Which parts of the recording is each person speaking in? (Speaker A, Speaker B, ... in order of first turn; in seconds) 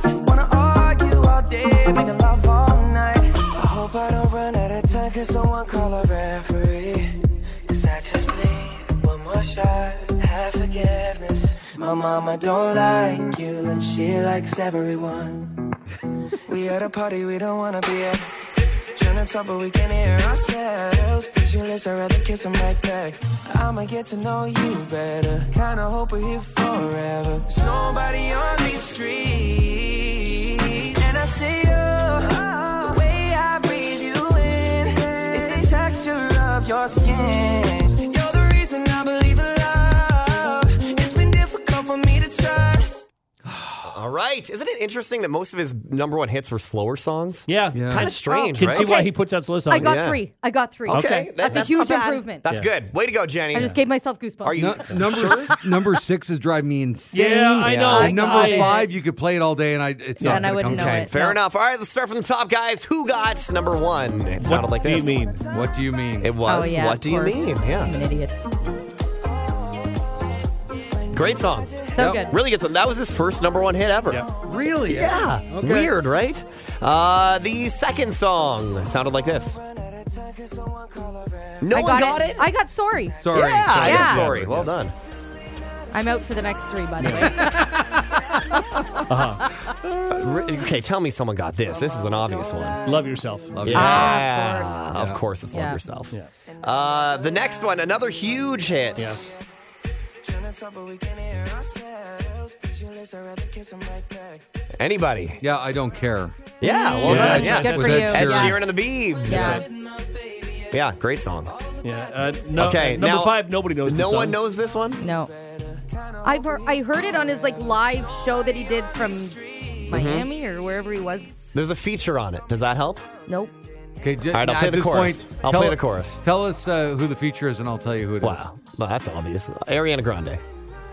Speaker A: 0.2-15.8, 16.4-18.3, 18.9-43.0, 65.2-65.7, 69.4-72.5, 74.2-74.8, 78.7-83.5, 87.1-89.5, 91.6-93.4, 96.5-99.5, 100.2-104.4, 109.3-110.8, 111.5-112.9, 114.8-120.3
Speaker B: 43.5-43.9, 47.7-48.1, 54.5-61.1, 65.5-66.4, 72.0-72.3, 74.4-76.0, 83.2-84.9, 87.5-88.1, 93.5-94.2, 94.9-95.2, 105.4-106.3, 107.0-108.6, 124.0-128.5
Speaker C: 43.9-48.9, 49.8-50.2, 50.9-53.8, 54.4-55.6, 57.6-58.2, 60.5-65.2, 66.2-68.0, 71.1-74.3, 74.9-79.6, 81.6-82.5, 83.3-85.0, 90.1-92.8, 93.6-99.3, 104.8-105.4, 106.6-109.6, 110.7-111.5, 112.6-115.0, 119.9-120.3, 121.5-123.1, 124.3-126.2, 128.2-130.4
Speaker D: 47.5-50.0, 50.9-51.7, 57.1-58.9, 64.4-65.4, 87.0-87.5, 89.1-90.2, 92.8-94.1, 99.0-99.3, 107.0-108.5, 109.3-109.7, 111.8-114.4
Speaker E: 48.0-49.1, 49.7-52.4, 53.5-54.6, 57.1-58.9, 60.2-61.4, 66.5-68.4, 72.0-72.4, 81.7-84.3, 85.9-87.8, 88.5-89.1, 93.7-94.8, 95.5-95.8, 106.6-108.6, 109.3-109.6, 115.0-115.3, 116.2-121.3, 123.3-123.5